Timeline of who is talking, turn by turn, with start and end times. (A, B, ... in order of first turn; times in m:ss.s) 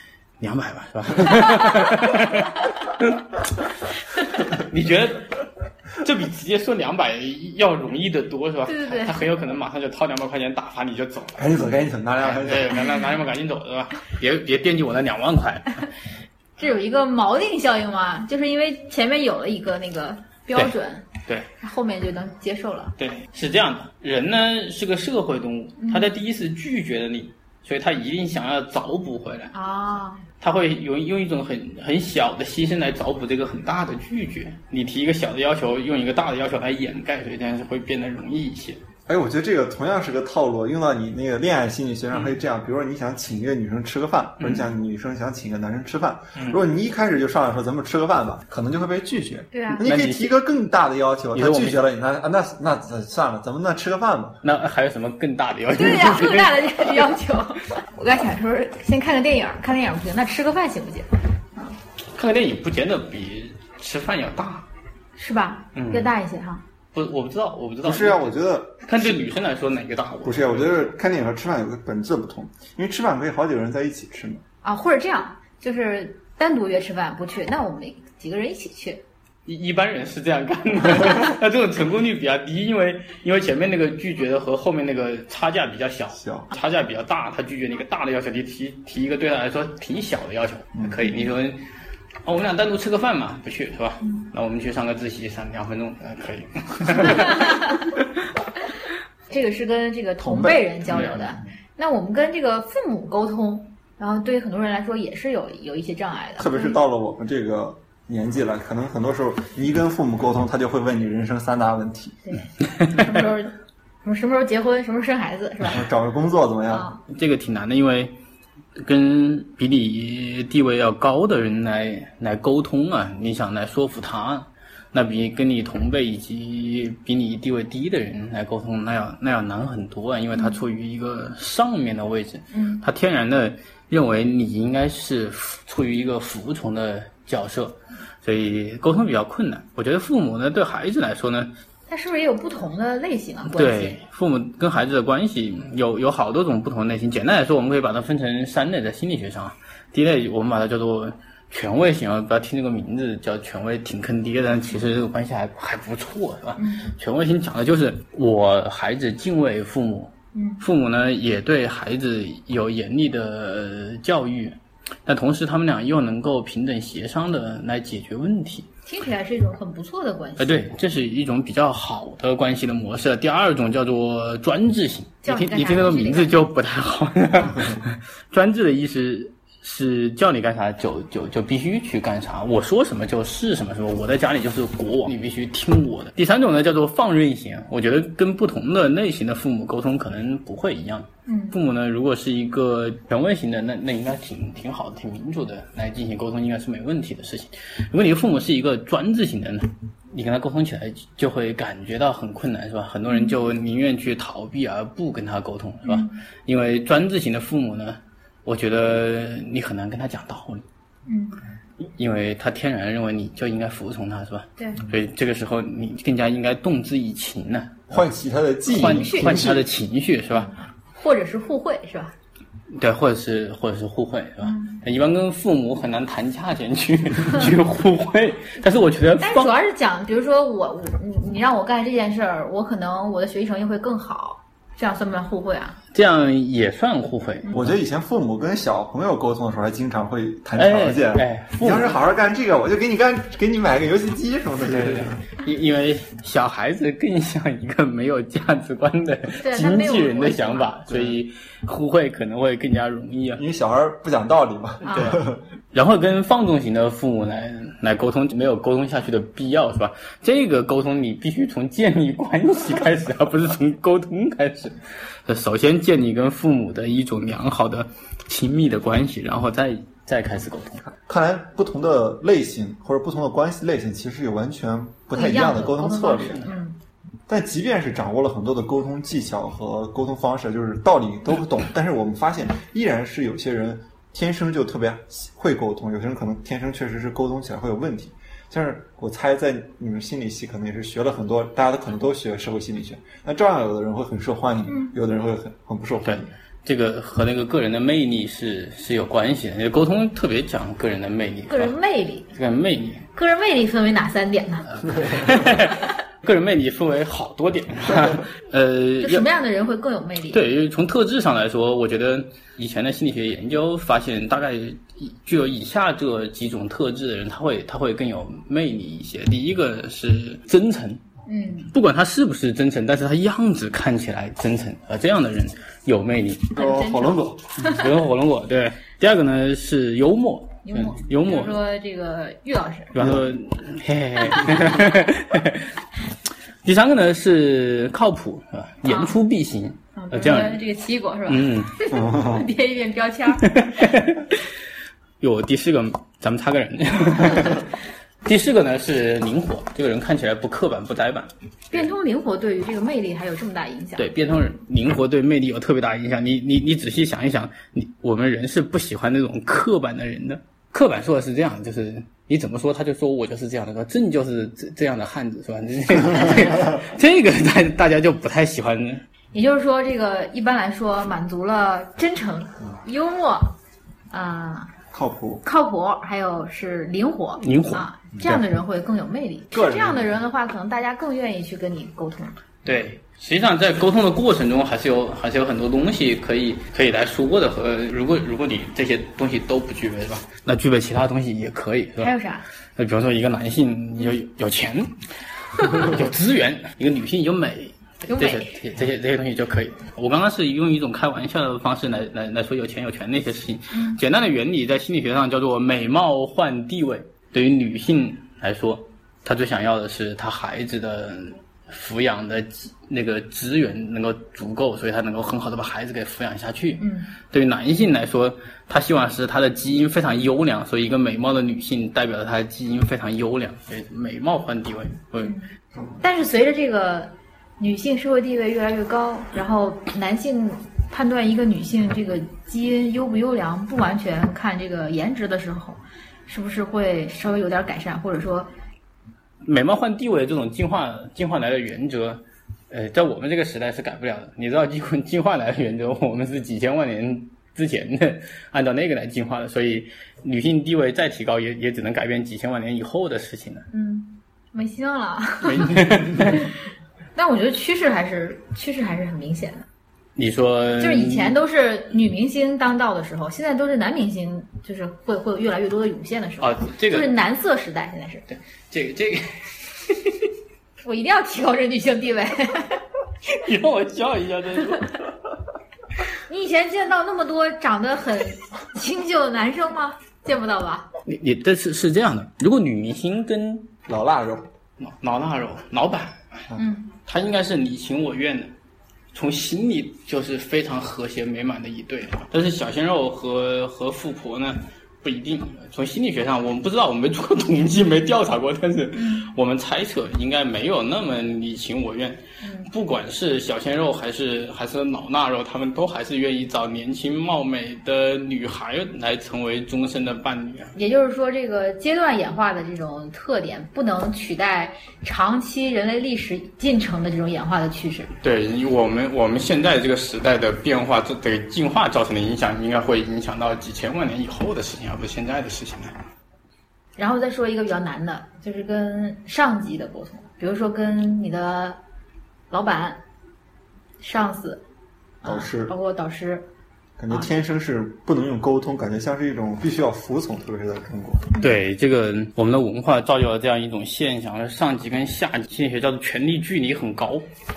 0:00.4-0:11.6 A
0:08.7-0:09.2 B
0:11.4-0:12.8 C
0:12.2-0:15.9 A
0:16.6-0:21.1 B
0:21.6-0:23.0 B
0:23.0-0:29.5 A
0:25.8-0:26.1 B
0:29.5-0:30.2 B
0:30.4-0:38.8 A
0:39.1-0:54.4 C
0:44.4-0:44.7 A
0:49.5-0:49.8 B
0:49.8-0:50.4 A
0:51.3-0:51.8 A
0:54.4-0:57.1 A
0:55.7-1:01.8 B
1:02.1-1:04.7 A
1:05.2-1:06.6 B
1:05.8-1:06.1 A
1:06.9-1:10.9 A
1:07.8-1:09.2 C
1:10.2-1:14.4 C
1:14.6-1:19.0 B
1:19.5-1:31.6 A
1:26.2-1:26.5 C
1:30.8-1:31.0 C
1:32.2-1:38.0 A
1:37.0-1:37.8 B
1:39.3-1:46.8 B
1:40.2-1:41.2 C
1:40.9-1:41.2 A
1:46.4-1:52.2 C
1:52.3-1:55.8 B
1:55.7-1:56.9 C
1:56.7-1:57.0 B
1:57.1-1:58.2 A
1:58.8-2:21.5 A
2:12.5-2:12.8 B
2:21.9-2:24.0 B
2:23.5-2:48.7 A
2:36.6-2:36.9 B
2:40.3-2:40.6 B
2:48.9-2:50.7 B
2:50.4-3:30.6 A
2:55.2-2:56.4 B
3:11.3-3:11.6 B
3:25.8-3:26.2 B
3:31.1-3:31.4 B
3:31.8-3:37.9 A
3:34.6-3:34.8 B
3:37.9-3:39.7 C
3:38.7-3:40.5 A
3:38.7-3:39.5 B
3:41.0-3:42.1 B
3:42.7-3:49.5 A
3:44.4-3:44.8 B
3:49.2-3:55.8 B
3:55.9-3:57.6 A
3:57.5-4:05.2 C
4:00.6-4:02.0 A
4:04.7-4:13.4 A
4:09.4-4:10.8 B
4:10.9-4:11.2 C
4:13.4-4:15.4 C
4:14.8-4:15.2 B
4:14.9-4:15.2 A
4:15.7-4:30.9 A
4:31.0-4:36.5 C
4:35.1-4:36.8 B
4:37.3-4:56.3 C
4:54.7-4:54.9 B
4:56.0-5:01.8 A
5:01.5-5:02.3 B
5:02.3-5:03.1 A
5:03.1-5:04.8 B
5:04.8-5:09.3 A
5:09.0-5:10.4 B
5:10.3-5:21.0 A
5:21.3-5:21.7 B
5:21.7-5:26.6 A
5:26.6-5:27.9 B
5:26.6-5:27.6 C
5:27.6-5:31.6 A
5:30.6-5:33.0 B
5:32.9-5:35.7 A
5:36.6-5:40.6 A
5:38.9-5:39.2 B
5:40.0-5:43.8 B
5:41.3-5:41.8 A
5:41.9-5:42.4 C
5:43.4-5:44.5 A
5:45.2-5:51.8 A
5:51.7-5:54.0 B
5:54.0-6:09.0 A
6:09.3-6:13.6 B
6:14.1-6:14.7 B
6:14.9-6:15.4 C
6:15.4-6:22.4 B
6:17.4-6:17.9 A
6:19.5-6:20.2 C
6:22.6-6:32.1 A
6:32.0-6:32.4 B
6:32.8-6:35.0 A
6:35.5-7:05.4 A
6:38.1-6:38.6 B
6:43.7-6:44.0 B
6:56.8-6:57.1 B
7:06.0-7:18.5 B
7:19.4-7:33.7 A
7:33.7-7:36.5 B
7:35.4-7:36.5 A
7:37.2-7:39.7 B
7:40.2-7:41.4 A
7:40.8-7:48.3 B
7:46.4-7:47.1 A
7:48.3-7:50.3 A
7:50.8-7:52.8 B
7:53.2-7:55.1 A
7:56.3-8:00.9 B
8:01.1-8:03.7 A
8:03.9-8:04.5 C
8:04.8-8:06.5 A
8:06.6-8:06.9 B
8:07.1-8:08.5 A
8:09.1-8:30.7 A
8:19.0-8:19.3 B
8:22.4-8:22.7 B
8:30.8-8:38.1 B
8:38.2-8:46.0 A
8:47.0-8:51.8 B
8:52.5-8:53.0 B
8:54.0-8:54.6 B
8:55.2-8:56.5 B
8:55.2-8:55.7 C
8:57.0-9:01.3 C
9:01.4-9:07.3 A